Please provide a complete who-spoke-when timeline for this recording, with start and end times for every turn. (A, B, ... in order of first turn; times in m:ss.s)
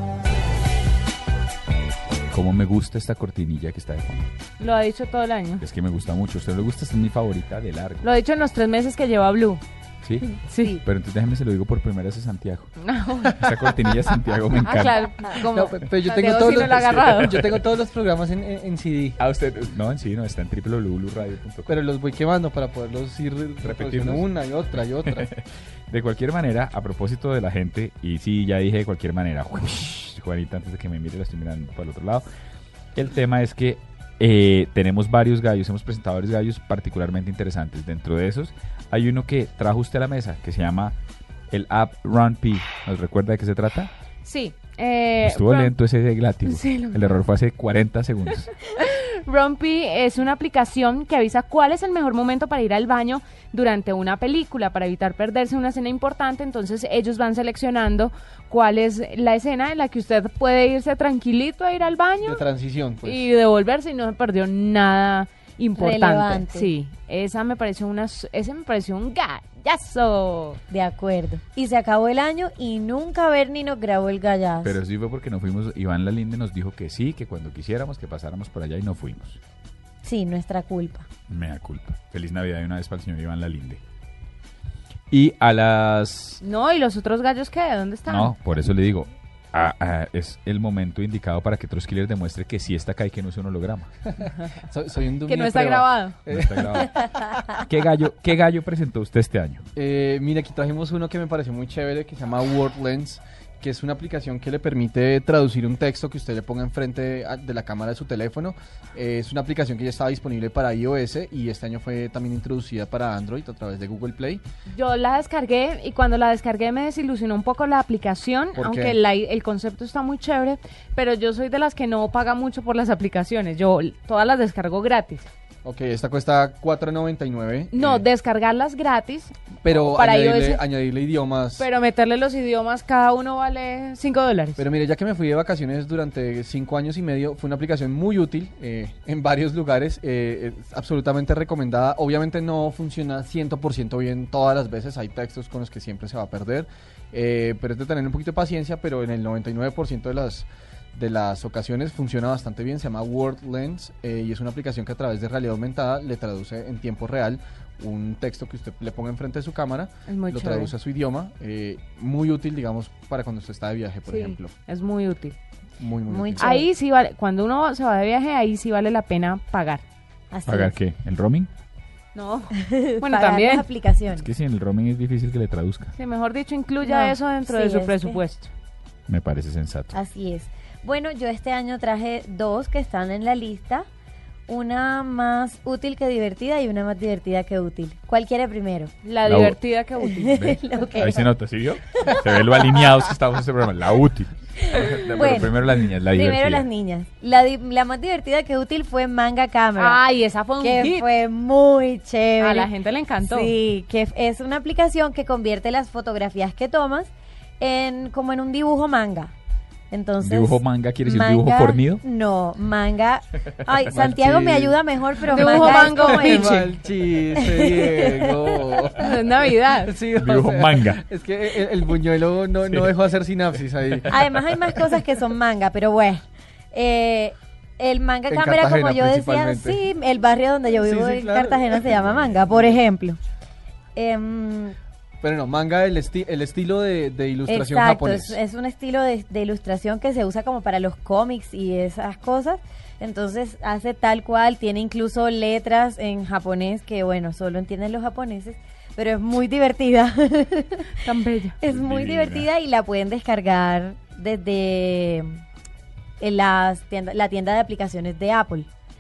0:02.3-0:04.3 A
0:04.6-0:05.6 B
0:05.6-0:08.1 A
0:08.0-0:09.6 B
0:10.0-0:12.7 A
0:10.4-0:10.8 B
0:12.8-0:13.3 B
0:13.3-0:13.9 C
0:13.4-0:15.0 A
0:14.6-0:17.4 B
0:15.5-0:19.2 C
0:17.2-0:17.5 A
0:19.2-0:21.8 A
0:21.7-0:25.3 C
0:23.6-0:24.3 A
0:25.0-0:32.3 A
0:32.9-0:41.0 A
0:41.5-0:43.9 A
0:44.2-0:45.8 B
0:45.2-0:48.5 A
0:46.4-0:47.0 B
0:48.7-1:02.4 B
1:02.2-1:03.2 C
1:03.0-1:10.6 B
1:05.8-1:06.7 D
1:10.7-1:14.8 D
1:14.6-1:19.4 A
1:20.0-1:21.0 D
1:21.3-1:23.8 A
1:25.1-1:26.4 A
1:26.4-1:28.3 B
1:28.1-1:33.9 A
1:34.2-1:37.2 C
1:35.2-1:36.2 B
1:36.3-1:39.6 A
1:39.8-1:54.4 C
1:54.7-2:05.2 B
1:58.5-1:59.0 C
2:05.6-2:08.0 C
2:07.7-2:10.6 B
2:09.6-2:11.6 C
2:11.6-2:14.6 B
2:14.6-2:44.5 C
2:40.0-2:40.7 B
2:44.1-2:45.4 B
2:45.8-2:46.6 C
2:46.1-2:46.7 D
2:46.4-2:49.8 B
2:50.3-2:50.8 D
2:50.5-2:51.5 A
2:52.1-2:53.6 B
2:52.6-2:54.2 D
2:54.1-2:55.9 A
2:55.9-2:58.5 B
2:56.8-2:58.2 D
2:59.1-2:59.9 A
2:59.9-3:03.8 D
3:04.5-3:08.9 D
3:09.0-3:10.4 B
3:09.2-3:09.6 A
3:10.1-3:11.2 D
3:10.3-3:16.6 A
3:14.7-3:20.0 D
3:19.8-3:21.1 B
3:20.6-3:22.7 D
3:22.4-3:23.5 B
3:23.2-3:29.3 D
3:29.9-3:36.7 D
3:30.2-3:32.0 A
3:33.9-3:34.8 C
3:35.3-3:36.6 B
3:35.3-3:44.2 C
3:37.3-3:38.6 D
3:39.0-3:39.9 B
3:40.2-3:41.0 A
3:44.1-3:53.2 D
3:48.3-3:49.8 C
3:50.8-3:52.8 C
3:54.0-3:54.7 D
3:55.2-3:58.4 C
3:57.5-4:11.0 D
4:11.0-4:11.6 B
4:11.6-4:15.3 D
4:11.6-4:12.5 A
4:16.2-4:18.7 D